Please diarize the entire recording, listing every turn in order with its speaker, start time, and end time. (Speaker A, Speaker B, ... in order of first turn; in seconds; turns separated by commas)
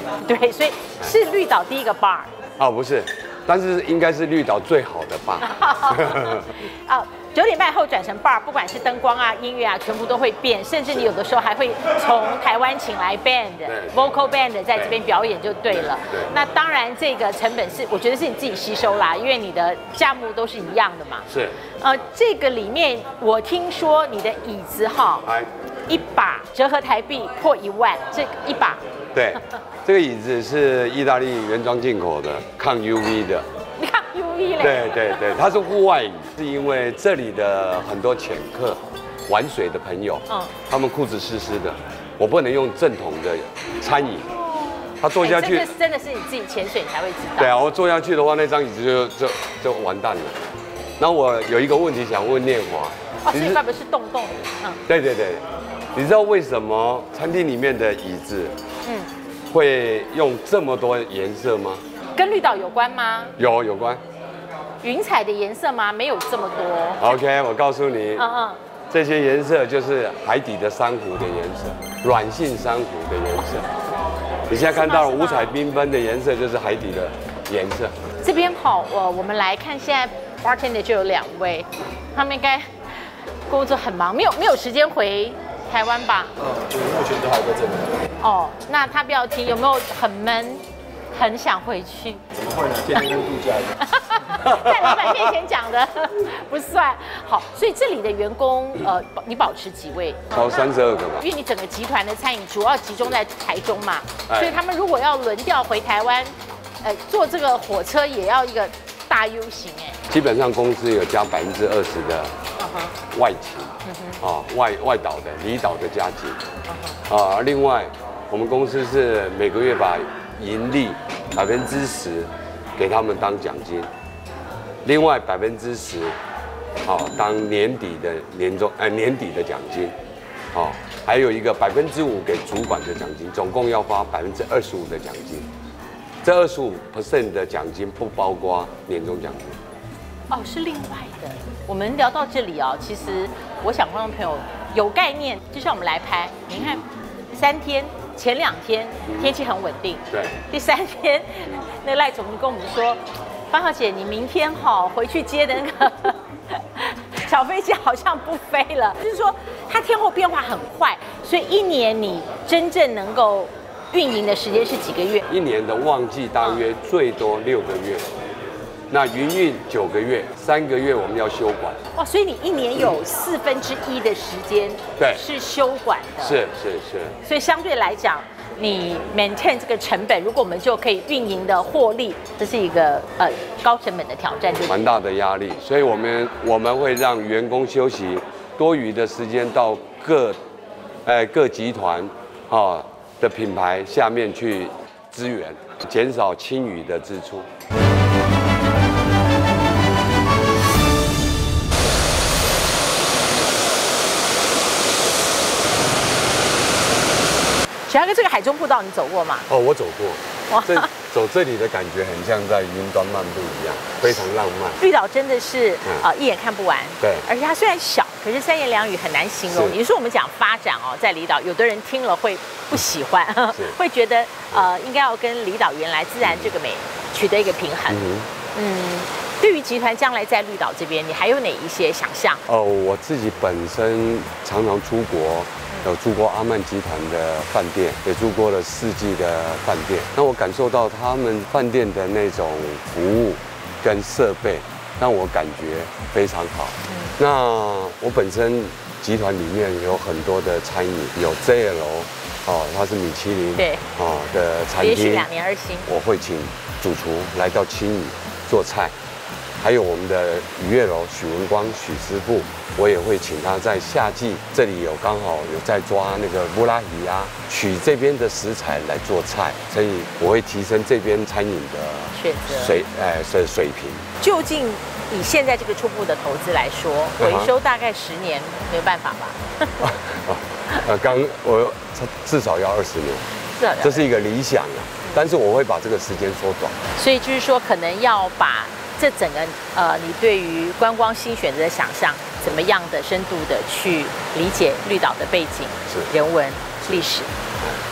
Speaker A: 0.2-2.3, Speaker B: 2.6-6.5, Speaker A: 5.4-21.3, Speaker B: 13.6-14.0, Speaker B: 15.7-16.3, Speaker B: 21.3-21.6, Speaker A: 21.8-25.3, Speaker A: 25.9-28.8, Speaker B: 29.1-33.5, Speaker A: 33.8-35.3, Speaker B: 34.6-44.3, Speaker A: 44.4-47.6, Speaker B: 45.0-45.7, Speaker B: 47.4-50.4, Speaker B: 51.0-53.6, Speaker A: 53.2-54.8, Speaker B: 54.9-58.6, Speaker A: 58.9-59.1, Speaker B: 59.5-61.8, Speaker A: 62.2-63.3, Speaker B: 63.4-64.0, Speaker A: 64.8-67.2, Speaker B: 67.0-68.3, Speaker A: 68.2-68.6, Speaker B: 68.9-73.7, Speaker B: 74.5-78.0, Speaker A: 74.5-75.5, Speaker A: 78.2-82.7, Speaker A: 83.5-86.3, Speaker C: 86.8-87.9, Speaker A: 88.2-92.2, Speaker C: 92.5-93.7, Speaker A: 93.8-100.5, Speaker B: 94.4-95.1, Speaker B: 100.3-101.3, Speaker A: 101.2-110.0, Speaker B: 104.3-104.6, Speaker B: 110.1-112.4, Speaker A: 112.6-113.0, Speaker B: 113.1-116.4, Speaker A: 113.9-114.2, Speaker A: 116.7-117.0, Speaker B: 117.1-123.9, Speaker B: 124.8-126.2, Speaker B: 126.8-130.0, Speaker B: 130.5-135.5, Speaker B: 136.2-139.6, Speaker A: 140.3-165.2, Speaker B: 149.1-149.4, Speaker B: 150.1-150.4, Speaker B: 165.3-168.1, Speaker B: 168.9-171.8, Speaker A: 172.0-176.4, Speaker B: 175.0-175.2, Speaker B: 176.2-177.2, Speaker A: 177.2-184.9, Speaker B: 184.6-190.4, Speaker B: 191.1-197.5, Speaker A: 207.9-209.5, Speaker B: 209.5-214.8, Speaker A: 210.5-210.9, Speaker A: 214.8-228.0, Speaker B: 217.0-217.3, Speaker B: 219.5-219.8, Speaker B: 226.2-226.5, Speaker B: 227.9-228.3, Speaker A: 228.5-232.4, Speaker B: 232.5-255.3, Speaker A: 246.9-247.1, Speaker A: 253.6-253.8, Speaker A: 254.8-255.9, Speaker B: 255.8-258.9, Speaker B: 259.6-274.1, Speaker A: 272.1-272.8, Speaker A: 274.2-279.8, Speaker B: 277.2-277.5, Speaker B: 279.8-283.3, Speaker A: 283.6-284.1, Speaker B: 283.8-286.8, Speaker A: 287.0-297.3